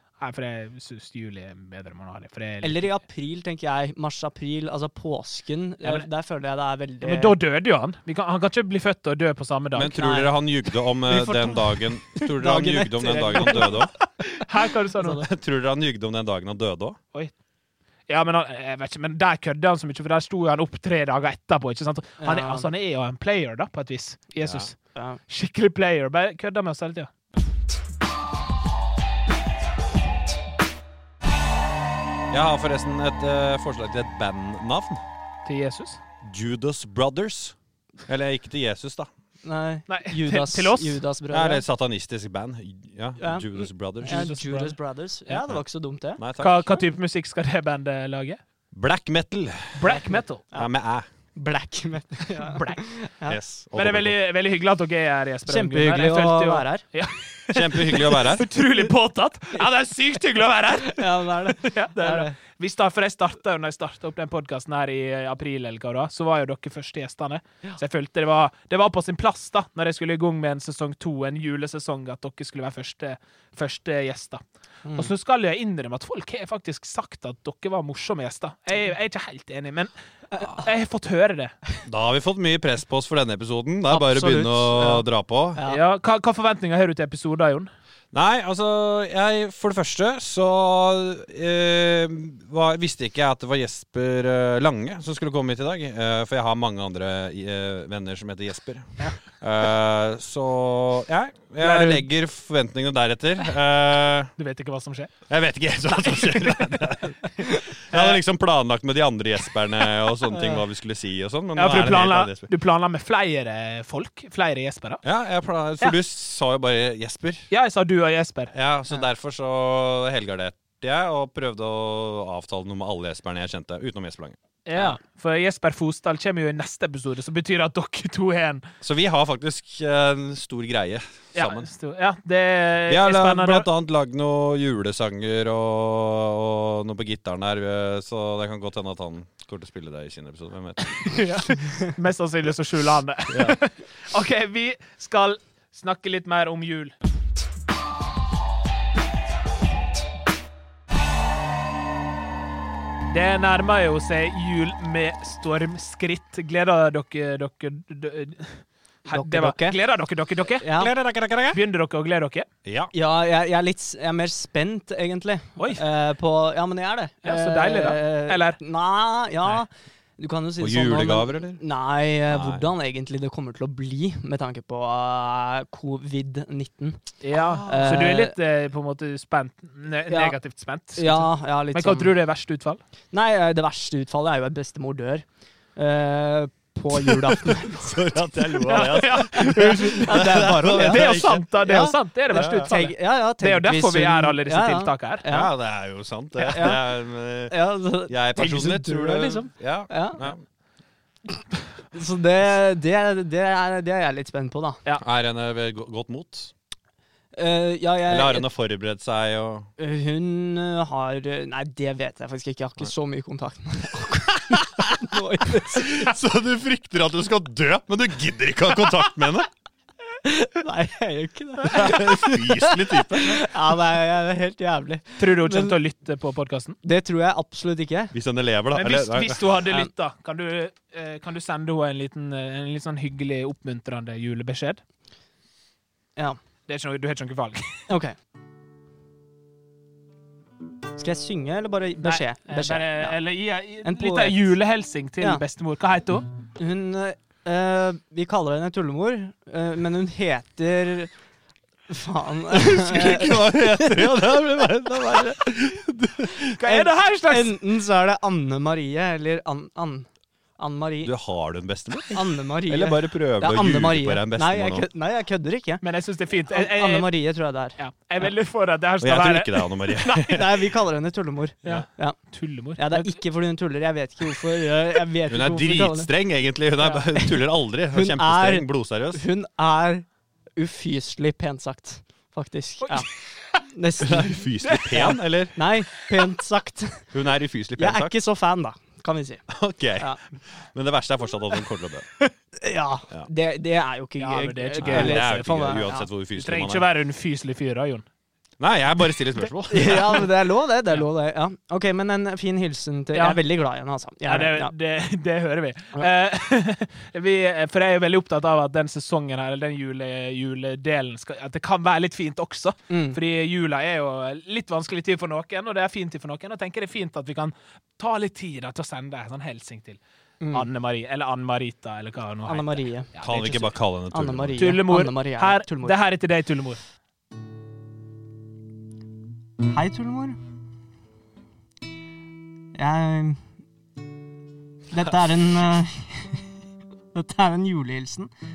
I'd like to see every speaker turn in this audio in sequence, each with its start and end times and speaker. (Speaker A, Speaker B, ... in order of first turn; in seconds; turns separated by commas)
Speaker A: 0.2-2.9, Speaker B: 2.6-7.3, Speaker A: 5.8-6.1, Speaker A: 7.0-10.0, Speaker C: 9.8-13.9, Speaker B: 10.0-10.3, Speaker B: 11.2-13.9, Speaker A: 13.1-15.2, Speaker C: 15.0-17.0, Speaker A: 18.1-27.1, Speaker B: 22.2-22.7, Speaker C: 24.4-24.7, Speaker C: 32.3-35.0, Speaker A: 35.5-36.0, Speaker C: 36.2-37.5, Speaker C: 38.1-39.1, Speaker B: 39.4-41.6, Speaker A: 39.9-41.0, Speaker C: 41.3-44.3, Speaker B: 43.2-46.2, Speaker A: 44.0-44.8, Speaker C: 46.2-46.8, Speaker A: 46.4-48.4, Speaker C: 48.7-49.9, Speaker A: 49.8-50.4, Speaker C: 50.5-51.1, Speaker B: 51.4-53.4, Speaker A: 52.3-52.8, Speaker C: 53.3-54.1, Speaker A: 53.8-74.4, Speaker B: 55.5-56.8, Speaker C: 57.5-58.5, Speaker B: 60.8-62.3, Speaker B: 74.8-75.1, Speaker A: 74.9-81.5, Speaker C: 81.8-85.6, Speaker B: 83.9-85.0, Speaker B: 85.5-85.8, Speaker A: 85.7-87.7, Speaker C: 88.1-104.3, Speaker A: 101.6-102.0, Speaker A: 104.4-105.1, Speaker C: 105.3-112.5, Speaker A: 105.9-106.8, Speaker A: 111.6-115.0, Speaker C: 115.0-117.5, Speaker A: 117.5-118.5, Speaker C: 118.5-124.4, Speaker A: 124.7-128.7, Speaker C: 128.8-131.7, Speaker A: 131.3-133.7, Speaker C: 132.9-141.2, Speaker A: 141.0-146.9, Speaker C: 143.3-143.6, Speaker A: 153.1-160.7, Speaker B: 159.1-159.8, Speaker B: 160.6-160.9, Speaker C: 160.8-161.6, Speaker A: 161.5-162.5, Speaker C: 162.6-162.9, Speaker B: 162.9-178.3, Speaker A: 165.6-165.8, Speaker A: 167.2-168.6, Speaker C: 170.6-171.6, Speaker C: 172.3-172.7, Speaker A: 177.2-182.8, Speaker C: 177.4-178.0, Speaker B: 180.1-180.3, Speaker B: 180.9-182.1, Speaker B: 183.1-195.5, Speaker C: 187.0-191.5, Speaker A: 188.7-195.2, Speaker C: 192.3-192.7, Speaker C: 195.3-200.4, Speaker B: 196.4-196.8, Speaker B: 197.5-200.2, Speaker B: 201.9-204.8, Speaker C: 205.0-206.5, Speaker B: 207.3-208.5, Speaker C: 208.1-209.7, Speaker B: 209.8-216.1, Speaker C: 214.5-215.0, Speaker C: 215.5-219.5, Speaker B: 220.2-225.8, Speaker C: 221.6-223.4, Speaker A: 225.2-226.8, Speaker B: 226.8-228.1, Speaker C: 228.1-229.4, Speaker A: 228.7-234.8, Speaker A: 236.7-237.9, Speaker B: 237.9-238.2, Speaker B: 241.0-243.2, Speaker A: 242.0-246.3, Speaker B: 243.8-244.5, Speaker B: 246.6-251.1, Speaker B: 251.9-254.1, Speaker C: 252.5-256.5, Speaker A: 256.6-257.6, Speaker B: 256.6-261.1, Speaker C: 261.0-264.9, Speaker B: 262.1-265.8, Speaker A: 265.8-267.1, Speaker B: 266.5-268.2, Speaker A: 267.8-270.3, Speaker C: 269.0-270.6, Speaker B: 270.3-272.2, Speaker A: 271.6-273.2, Speaker B: 272.8-276.1, Speaker C: 275.3-279.2, Speaker B: 276.8-277.4, Speaker B: 277.9-280.1, Speaker B: 280.6-283.1, Speaker A: 282.8-283.6, Speaker B: 283.6-284.4, Speaker C: 284.0-285.6, Speaker A: 284.6-285.1, Speaker B: 285.0-287.0, Speaker C: 287.1-288.1, Speaker B: 287.8-289.4, Speaker C: 289.5-290.1, Speaker C: 290.7-292.1, Speaker B: 292.6-296.1, Speaker A: 294.2-295.4, Speaker C: 294.8-296.9, Speaker A: 296.4-298.1, Speaker C: 298.6-300.2, Speaker B: 299.7-304.7, Speaker A: 303.1-303.4, Speaker A: 304.3-320.0, Speaker B: 312.9-313.2, Speaker B: 320.4-320.7, Speaker A: 320.5-323.7, Speaker B: 322.5-323.1, Speaker C: 323.2-324.6, Speaker B: 324.1-326.0, Speaker A: 324.6-326.8, Speaker B: 329.7-330.4, Speaker B: 332.8-333.4, Speaker B: 334.9-336.4, Speaker B: 337.1-338.3